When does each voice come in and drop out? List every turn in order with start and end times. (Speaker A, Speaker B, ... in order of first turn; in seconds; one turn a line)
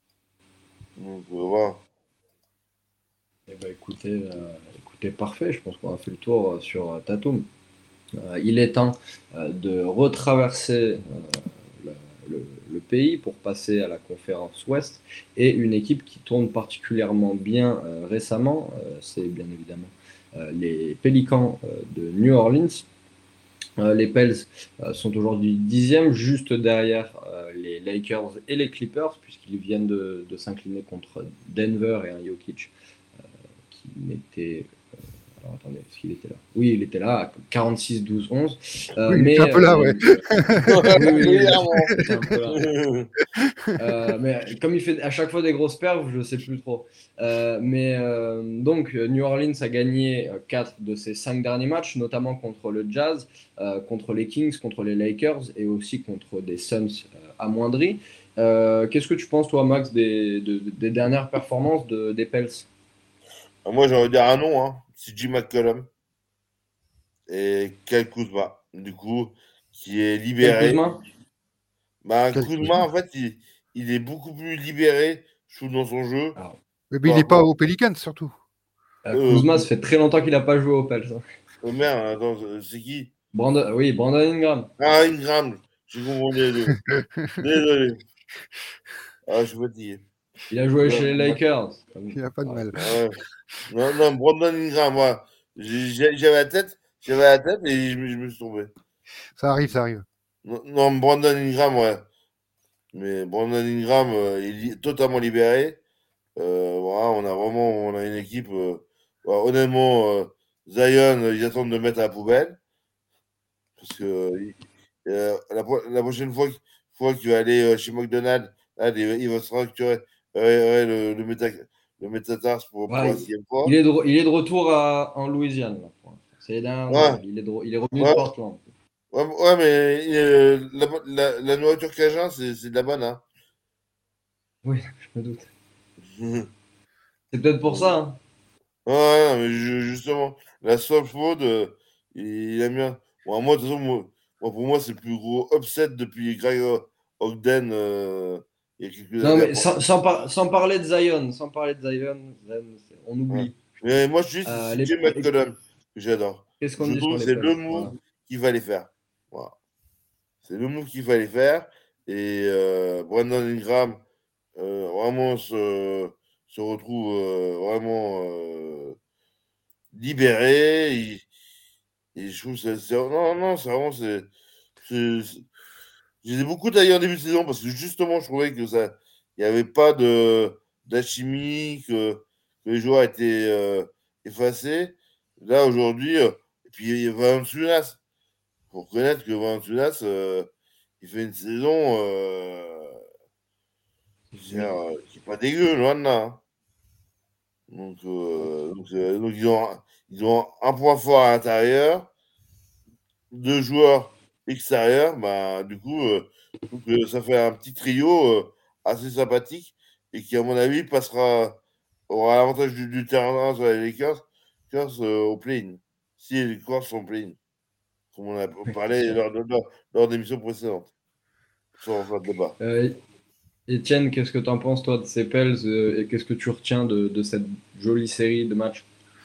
Speaker A: 1.0-1.8
Speaker B: 3.5-7.5
Speaker B: 8.2-22.9
Speaker B: 23.8-32.7
Speaker B: 33.7-34.7
Speaker B: 35.4-42.7
Speaker C: 39.1-41.2
Speaker A: 40.7-42.0
Speaker A: 42.5-43.1
Speaker C: 43.4-43.8
Speaker B: 43.8-62.7
Speaker A: 63.6-65.9
Speaker A: 67.3-70.8
Speaker B: 70.4-71.0
Speaker A: 72.0-76.4
Speaker C: 72.3-72.9
Speaker C: 76.9-78.3
Speaker A: 77.0-77.5
Speaker B: 79.1-81.2
Speaker A: 79.1-79.7
Speaker A: 81.6-83.1
Speaker B: 83.3-84.7
Speaker A: 84.8-86.8
Speaker C: 86.7-87.4
Speaker A: 87.4-88.0
Speaker A: 89.3-90.0
Speaker B: 90.5-92.8
Speaker A: 90.8-91.4
Speaker C: 92.1-92.9
Speaker A: 92.8-98.7
Speaker C: 99.4-100.0
Speaker A: 100.4-102.1
Speaker A: 102.9-105.8
Speaker A: 106.4-112.6
Speaker A: 113.8-123.8
Speaker B: 122.9-128.7
Speaker A: 126.9-127.2
Speaker A: 128.0-128.3
Speaker A: 129.1-133.2
Speaker B: 134.7-135.5
Speaker A: 136.0-136.5
Speaker B: 137.3-138.2
Speaker A: 137.7-137.9
Speaker A: 138.9-150.3
Speaker B: 149.2-153.6
Speaker A: 153.3-159.6
Speaker B: 154.5-155.3
Speaker B: 156.6-157.9
Speaker A: 160.4-164.0
Speaker A: 164.6-169.0
Speaker A: 169.9-171.3
Speaker A: 172.2-174.3
Speaker A: 174.8-175.5
Speaker A: 176.2-188.0
Speaker A: 188.7-190.5
Speaker A: 191.0-193.0
Speaker B: 194.3-194.8
Speaker A: 194.4-196.4
Speaker A: 197.7-202.1
Speaker A: 203.3-217.4
Speaker A: 218.1-220.9
Speaker A: 221.8-222.6
Speaker B: 222.6-223.0
Speaker B: 223.7-228.9